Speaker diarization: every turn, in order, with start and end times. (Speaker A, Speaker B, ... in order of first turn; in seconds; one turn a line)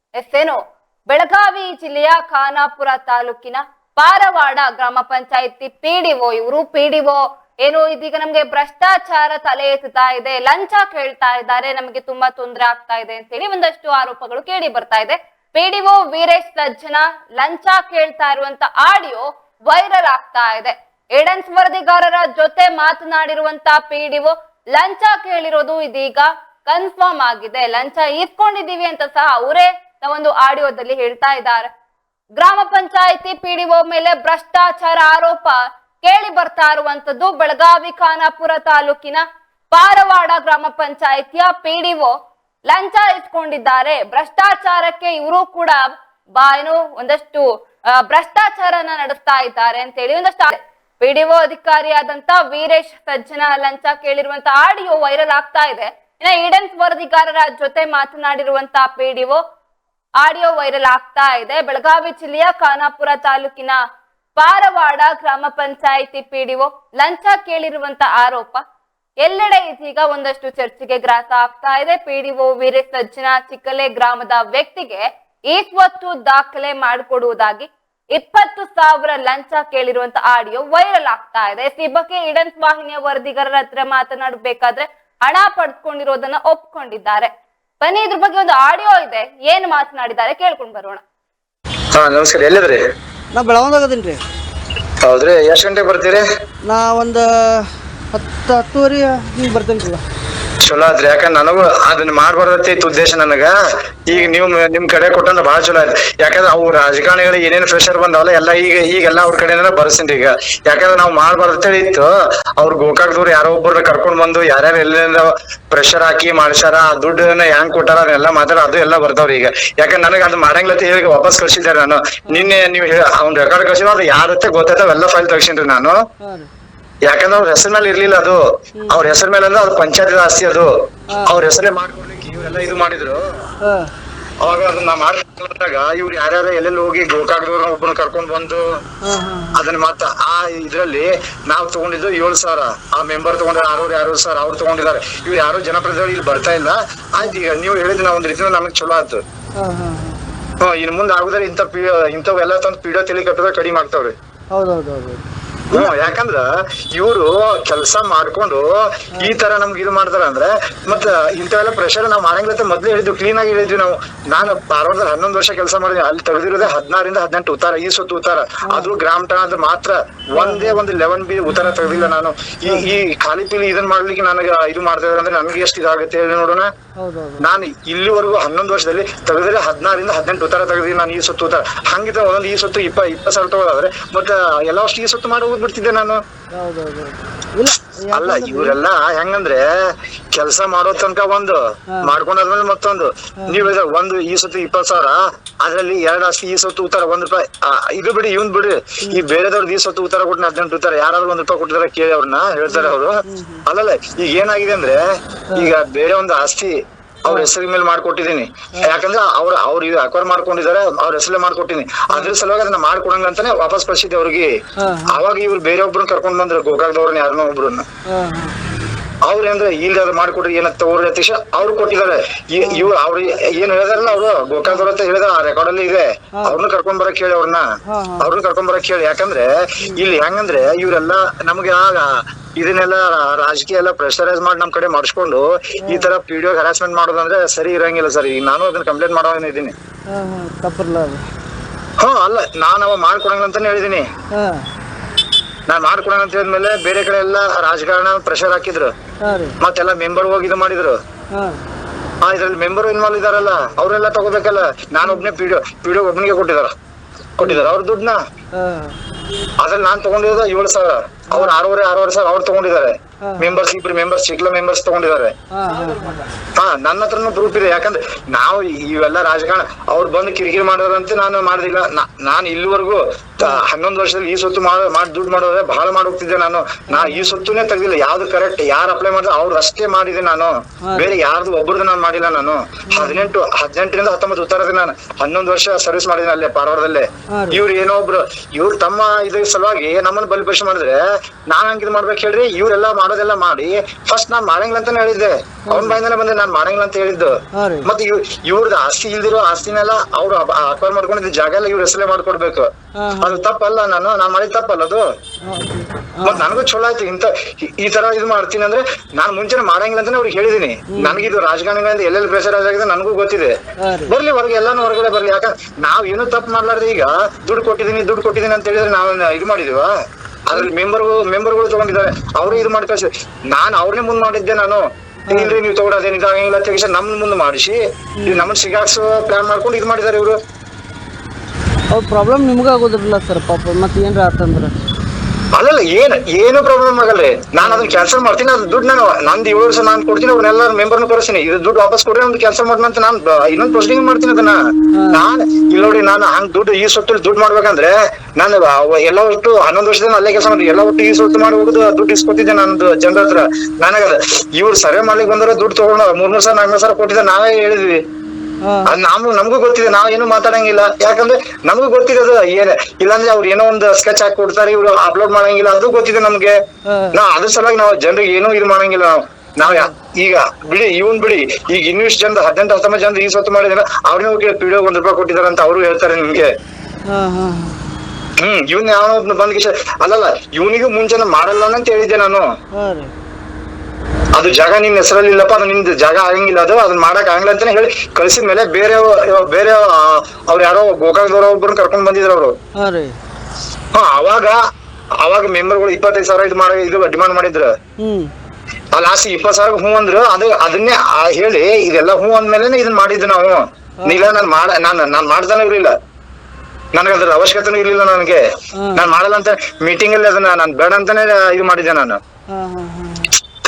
Speaker A: 0.2-31.7
Speaker A: 32.4-42.1
Speaker A: 42.7-59.4
Speaker A: 60.2-63.8
Speaker A: 64.3-68.6
Speaker A: 69.2-87.3
Speaker A: 87.8-91.0
Speaker B: 91.9-92.8
Speaker C: 93.3-94.2
Speaker B: 95.0-96.2
Speaker C: 96.7-97.2
Speaker C: 98.1-100.0
Speaker B: 100.6-103.5
Speaker B: 104.1-126.0
Speaker C: 126.2-126.5
Speaker B: 127.0-133.2
Speaker C: 128.8-129.0
Speaker C: 131.1-131.4
Speaker C: 133.6-133.9
Speaker B: 134.4-138.8
Speaker C: 139.0-139.6
Speaker B: 139.5-149.2
Speaker C: 149.6-150.2
Speaker B: 150.6-154.1
Speaker C: 154.5-156.0
Speaker B: 155.7-176.7
Speaker C: 168.7-168.9
Speaker C: 170.3-170.8
Speaker C: 172.7-173.0
Speaker C: 177.0-177.5
Speaker B: 177.4-186.2
Speaker C: 186.6-188.8
Speaker B: 188.1-214.5
Speaker C: 191.9-192.2
Speaker C: 193.4-193.7
Speaker C: 202.7-203.6
Speaker C: 212.1-212.3
Speaker C: 214.8-215.2
Speaker B: 215.1-217.8
Speaker C: 218.1-218.6
Speaker B: 219.2-227.7
Speaker C: 222.6-222.9
Speaker C: 227.9-228.3
Speaker B: 228.2-239.7
Speaker C: 240.1-241.2
Speaker B: 242.0-244.1
Speaker C: 244.3-244.7
Speaker B: 245.7-248.9
Speaker C: 249.2-249.6
Speaker B: 249.6-251.0
Speaker C: 251.3-251.6
Speaker B: 252.2-256.7
Speaker C: 255.0-255.3
Speaker B: 257.4-258.2
Speaker C: 257.4-257.7
Speaker C: 258.5-258.9
Speaker B: 259.6-265.3
Speaker C: 263.2-263.6
Speaker C: 265.5-266.2
Speaker B: 266.5-305.1
Speaker C: 276.9-277.4
Speaker C: 280.8-281.2
Speaker C: 282.9-283.3
Speaker C: 287.3-287.6
Speaker C: 295.7-296.0
Speaker C: 297.6-297.9
Speaker C: 303.0-303.4
Speaker C: 305.5-306.5
Speaker B: 306.2-313.5
Speaker C: 310.9-311.3
Speaker C: 313.8-314.1
Speaker B: 314.1-319.9
Speaker B: 320.5-330.4
Speaker C: 322.4-322.7
Speaker C: 325.3-325.6
Speaker C: 328.2-328.5
Speaker C: 331.9-334.7
Speaker B: 335.6-344.6
Speaker C: 337.6-338.0
Speaker C: 344.9-345.3
Speaker B: 345.1-358.0
Speaker C: 358.6-358.9
Speaker B: 358.9-366.6
Speaker C: 366.9-367.2
Speaker B: 367.1-376.5
Speaker C: 369.6-369.9
Speaker C: 377.1-377.9
Speaker B: 378.4-382.5
Speaker C: 382.7-383.1
Speaker B: 384.3-392.6
Speaker C: 392.8-393.1
Speaker B: 393.9-394.7
Speaker B: 395.2-397.7
Speaker C: 398.0-398.3
Speaker B: 398.9-405.9
Speaker C: 404.0-404.4
Speaker B: 406.9-408.4
Speaker C: 408.8-409.1
Speaker B: 408.9-412.2
Speaker C: 412.5-413.3